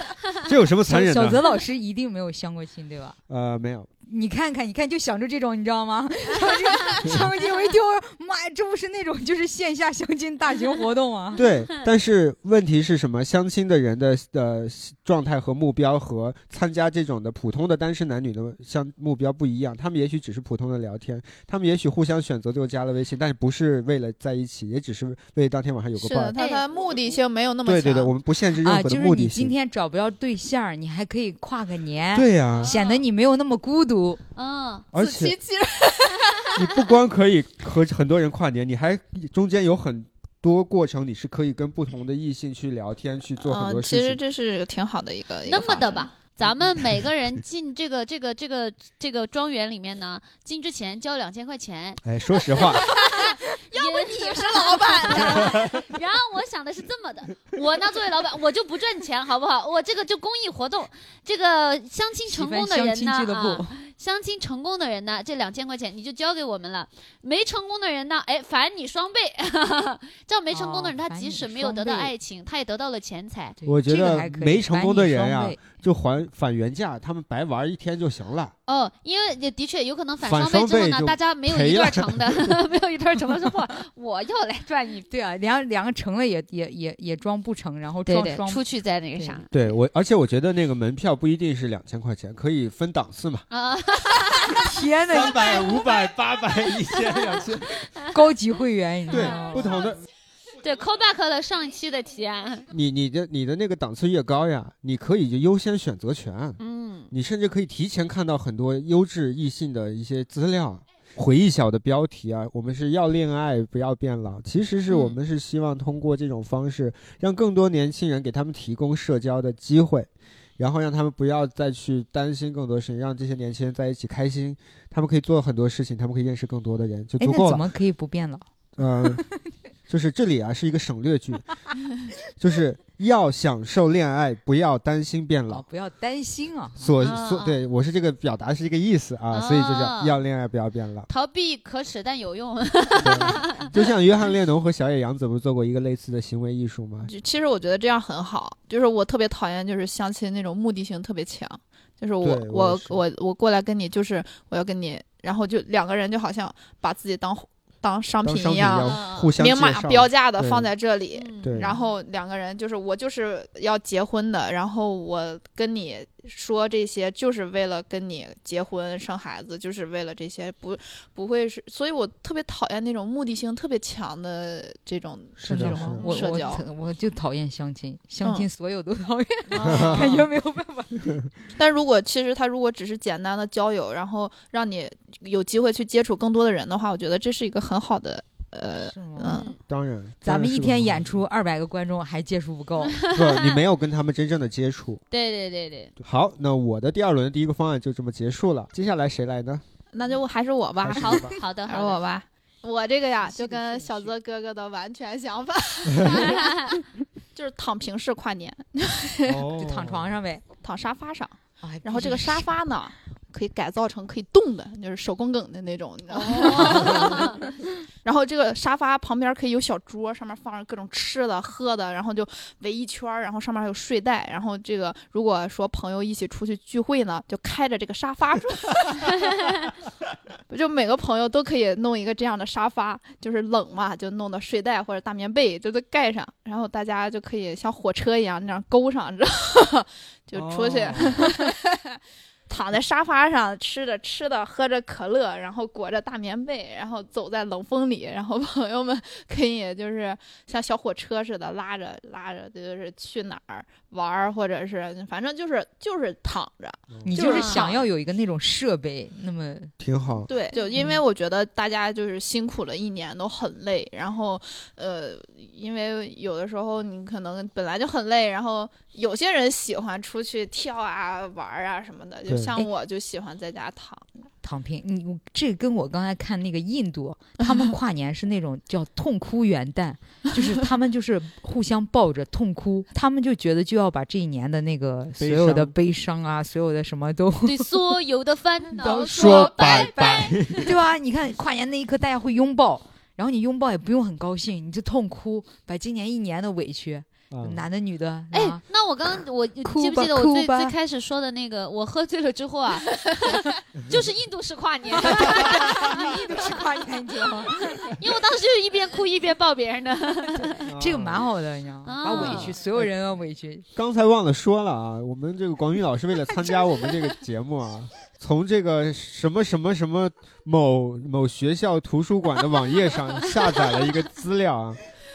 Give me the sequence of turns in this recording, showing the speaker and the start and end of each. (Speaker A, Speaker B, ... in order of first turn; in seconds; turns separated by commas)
Speaker A: 0.4-1.4, Speaker B: 0.9-3.2, Speaker A: 3.3-3.9, Speaker B: 4.1-11.4, Speaker A: 11.3-26.4, Speaker C: 26.0-28.1, Speaker D: 26.4-26.6, Speaker A: 27.6-29.5, Speaker B: 28.6-34.2, Speaker A: 32.1-32.7, Speaker D: 32.6-33.0, Speaker D: 34.4-34.9, Speaker A: 34.9-35.4, Speaker C: 35.0-36.5, Speaker A: 36.5-44.2, Speaker C: 43.4-46.1, Speaker D: 45.5-73.6, Speaker A: 52.0-52.9, Speaker C: 52.6-55.8, Speaker B: 62.3-63.8, Speaker B: 70.5-72.1, Speaker B: 73.6-75.7, Speaker A: 73.7-78.5, Speaker D: 78.7-85.1, Speaker A: 80.2-82.6, Speaker B: 85.1-88.6, Speaker D: 88.1-89.5, Speaker B: 89.2-89.4, Speaker A: 89.5-93.5, Speaker D: 93.5-94.7, Speaker B: 94.6-95.5, Speaker A: 95.1-97.8, Speaker D: 95.3-96.0, Speaker D: 96.8-98.1, Speaker B: 98.1-99.7, Speaker A: 99.1-100.0, Speaker D: 99.1-99.7, Speaker D: 100.6-102.7, Speaker A: 102.7-127.7, Speaker D: 106.6-107.1, Speaker D: 114.9-115.2, Speaker B: 127.2-128.5, Speaker A: 128.8-129.2, Speaker A: 129.9-131.5, Speaker A: 132.4-135.7, Speaker B: 135.5-137.0, Speaker A: 136.8-141.1, Speaker D: 137.0-137.6, Speaker D: 139.3-140.2, Speaker D: 141.1-143.7, Speaker A: 143.0-147.1, Speaker C: 147.1-176.6, Speaker A: 152.2-153.0, Speaker A: 158.2-160.7, Speaker D: 158.8-159.3, Speaker D: 161.1-161.8, Speaker A: 161.4-161.8, Speaker A: 175.4-176.1, Speaker B: 175.4-181.2, Speaker D: 179.5-180.2, Speaker A: 179.6-180.2, Speaker C: 181.6-189.5, Speaker B: 188.9-189.4, Speaker D: 189.3-189.6, Speaker A: 189.7-191.2, Speaker B: 190.2-193.0, Speaker D: 192.9-193.6, Speaker A: 193.1-195.0, Speaker D: 195.1-195.9, Speaker A: 196.0-199.6, Speaker C: 199.9-206.8, Speaker A: 200.8-201.3, Speaker D: 200.9-202.0, Speaker B: 203.3-204.1, Speaker D: 206.1-206.7, Speaker C: 207.3-209.4, Speaker A: 209.3-210.2, Speaker B: 209.6-210.4, Speaker C: 210.6-217.4, Speaker B: 211.6-212.5, Speaker D: 216.2-217.4, Speaker B: 216.3-217.2, Speaker C: 218.0-229.5, Speaker C: 230.5-257.8, Speaker A: 240.3-241.3, Speaker A: 256.9-257.2, Speaker B: 257.1-259.7, Speaker D: 257.2-257.7, Speaker A: 259.8-260.3, Speaker C: 260.3-274.1, Speaker B: 260.8-261.0, Speaker A: 272.3-272.6, Speaker B: 274.4-287.7, Speaker A: 285.2-285.8, Speaker D: 287.4-290.7, Speaker B: 288.8-289.9, Speaker A: 289.1-290.7, Speaker B: 290.5-298.6, Speaker A: 297.3-297.6, Speaker D: 298.3-306.6, Speaker B: 299.6-300.7, Speaker A: 303.8-304.1, Speaker B: 305.0-307.9, Speaker A: 305.2-305.9, Speaker D: 307.8-310.6, Speaker B: 310.4-313.7, Speaker A: 310.6-311.3, Speaker D: 311.9-312.6, Speaker A: 312.1-312.9, Speaker A: 313.8-324.8, Speaker B: 316.3-316.9